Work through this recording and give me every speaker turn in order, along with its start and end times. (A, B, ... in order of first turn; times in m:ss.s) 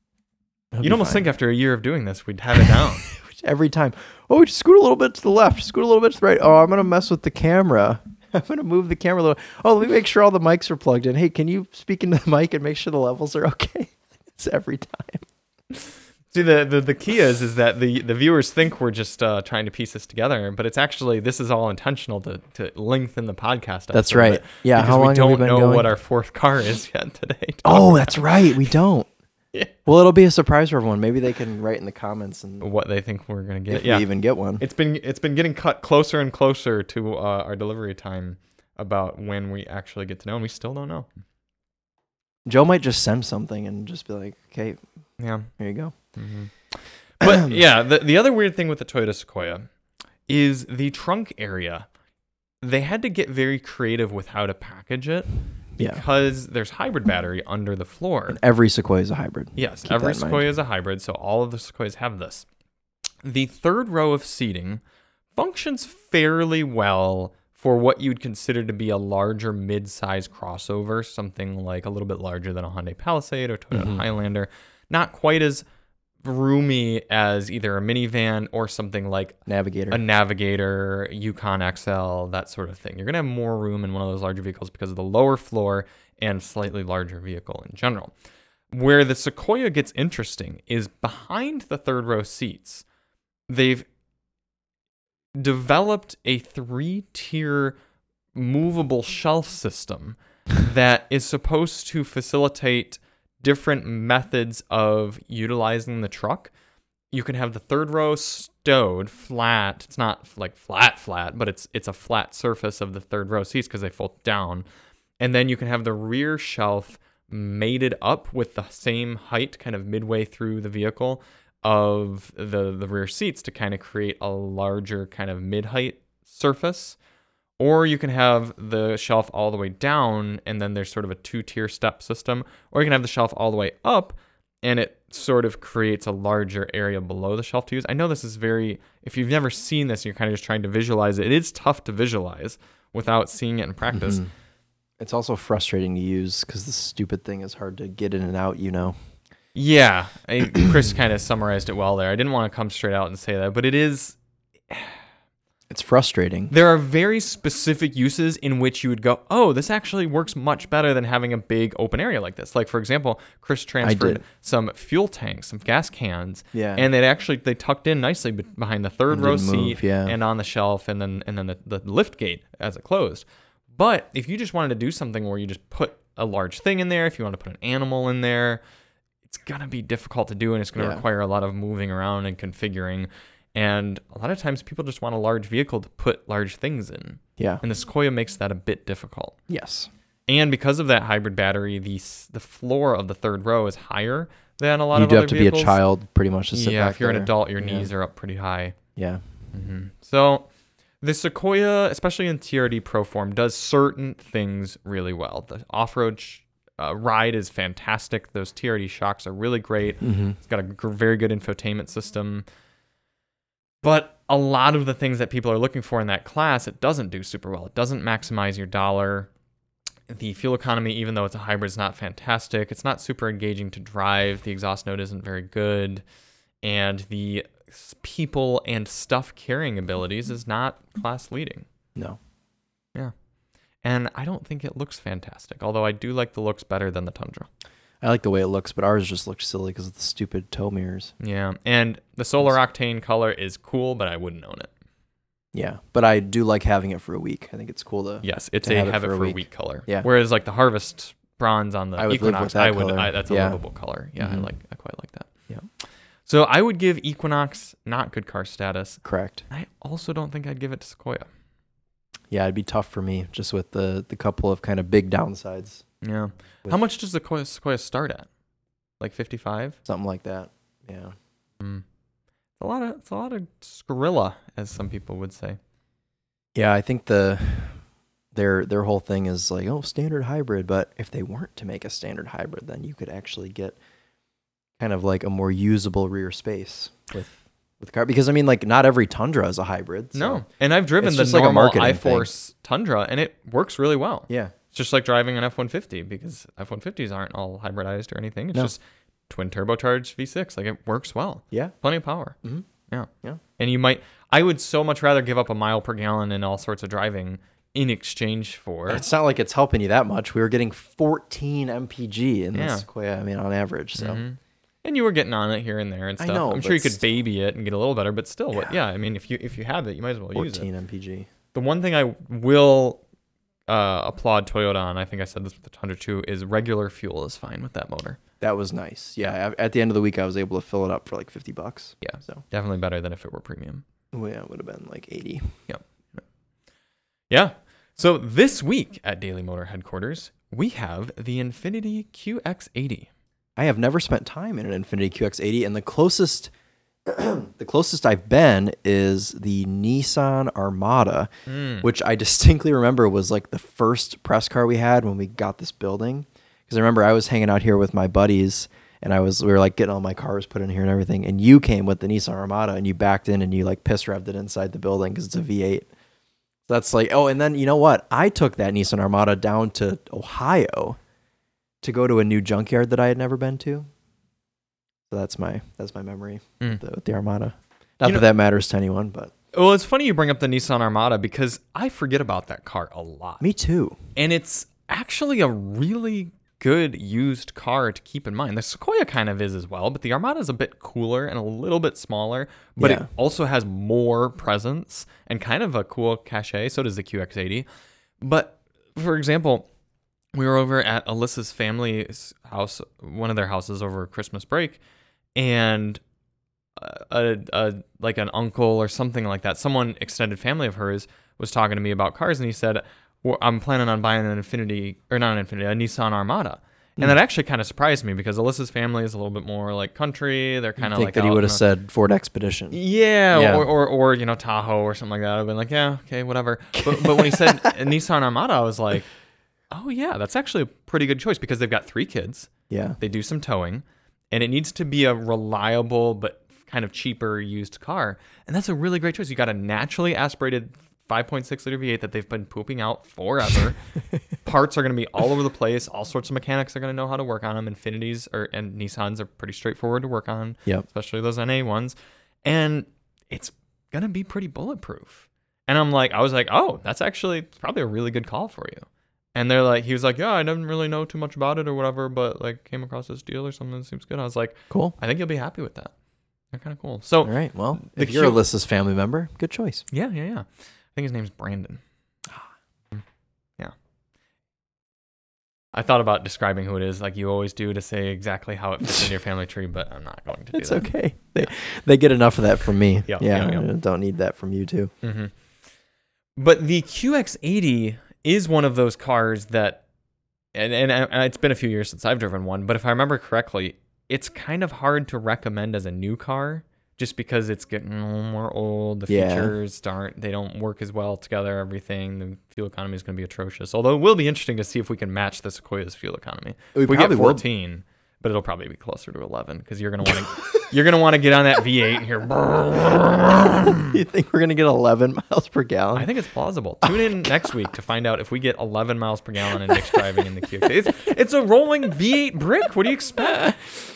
0:00.7-0:01.3 A
0:00.8-0:03.1 B
0:02.6-0:15.2 A
0:16.3-0:28.7 B
0:23.9-0:25.9 A
0:27.6-0:29.1 A
0:29.9-0:32.7 A
0:32.6-0:34.1 B
0:33.7-0:34.6 A
0:34.6-0:41.1 B
0:42.5-0:44.8 A
0:45.2-0:45.5 B
0:45.6-0:45.9 A
0:46.2-0:46.5 B
0:47.2-0:49.7 B
0:47.2-0:47.6 A
0:50.3-0:51.9 B
0:52.6-0:58.4 B
0:55.8-0:56.0 A
0:58.3-1:00.5 A
0:59.6-1:02.5 B
1:03.2-1:04.8 B
1:05.4-1:15.6 B
1:13.7-1:14.0 A
1:16.2-1:19.4 B
1:19.5-1:20.0 A
1:19.9-1:28.1 B
1:28.7-1:32.8 B
1:33.5-1:33.9 B
1:35.4-1:37.8 B
1:38.3-1:46.5 B
1:47.1-1:54.7 B
1:55.2-2:07.0 B
2:07.6-2:24.2 B
2:23.9-2:24.3 A
2:25.0-2:29.0 A
2:29.6-2:34.2 B
2:34.7-2:35.0 B
2:35.7-2:36.5 A
2:36.5-2:58.6 B
2:43.8-2:44.2 A
2:46.5-2:46.9 A
2:49.1-2:50.1 A
2:59.3-3:09.4 B
3:00.8-3:01.0 A
3:09.5-3:09.9 A
3:10.3-3:15.8 B
3:14.9-3:17.9 A
3:16.5-3:18.8 B
3:19.0-3:19.2 A
3:19.5-3:20.5 B
3:21.0-3:32.4 B
3:30.0-3:30.4 A
3:33.8-3:39.3 B
3:40.1-3:46.0 B
3:46.6-3:51.7 B
3:53.8-3:57.5 B
3:58.0-4:01.1 A
4:01.2-4:04.7 B
4:05.5-4:10.1 A
4:08.2-4:15.3 B
4:12.0-4:13.6 A
4:14.2-4:14.5 A
4:16.3-4:21.3 B
4:19.0-4:19.4 A
4:22.3-4:25.8 A
4:26.0-4:28.3 B
4:29.0-4:29.8 B
4:29.9-4:31.2 A
4:31.6-4:31.8 B
4:32.6-4:35.6 B
4:36.6-4:37.8 A
4:38.3-4:43.8 A
4:44.8-4:50.4 A
4:50.2-5:02.4 B
4:51.0-4:52.3 A
4:54.3-4:54.5 A
5:02.9-5:09.0 B
5:08.9-5:14.2 A
5:12.5-5:12.9 B
5:14.0-5:20.7 B
5:16.2-5:17.0 A
5:20.4-5:21.3 A
5:21.5-5:23.0 B
5:23.7-5:28.2 B
5:28.4-5:32.4 A
5:32.0-5:33.8 B
5:34.1-5:35.5 A
5:35.7-5:36.2 B
5:37.3-5:43.1 B
5:43.6-5:46.5 A
5:47.1-5:51.3 A
5:51.5-5:51.9 B
5:51.8-6:05.9 A
6:06.7-6:11.0 A
6:11.8-6:13.9 A
6:15.1-6:19.3 A
6:19.5-6:23.4 B
6:23.4-6:24.0 A
6:24.2-6:37.7 B
6:32.8-6:33.1 A
6:38.2-6:39.7 B
6:40.4-6:44.8 B
6:45.4-6:46.0 B
6:46.8-7:01.6 B
7:00.8-7:02.8 A
7:02.7-7:09.1 B
7:03.3-7:03.7 A
7:06.8-7:07.8 A
7:09.7-7:23.8 B
7:12.7-7:13.0 A
7:24.4-7:45.9 B
7:44.7-7:45.0 A
7:46.5-7:48.4 B
7:47.2-7:49.8 A
7:49.9-7:51.8 B
7:55.7-8:00.9 B
8:00.5-8:04.9 A
8:03.1-8:03.7 B
8:05.0-8:05.3 B
8:06.4-8:09.8 B
8:10.5-8:34.0 B
8:19.1-8:19.6 A
8:26.8-8:27.4 A
8:33.8-8:36.1 A
8:36.0-8:43.6 B
8:36.8-8:37.2 A
8:39.7-8:40.0 A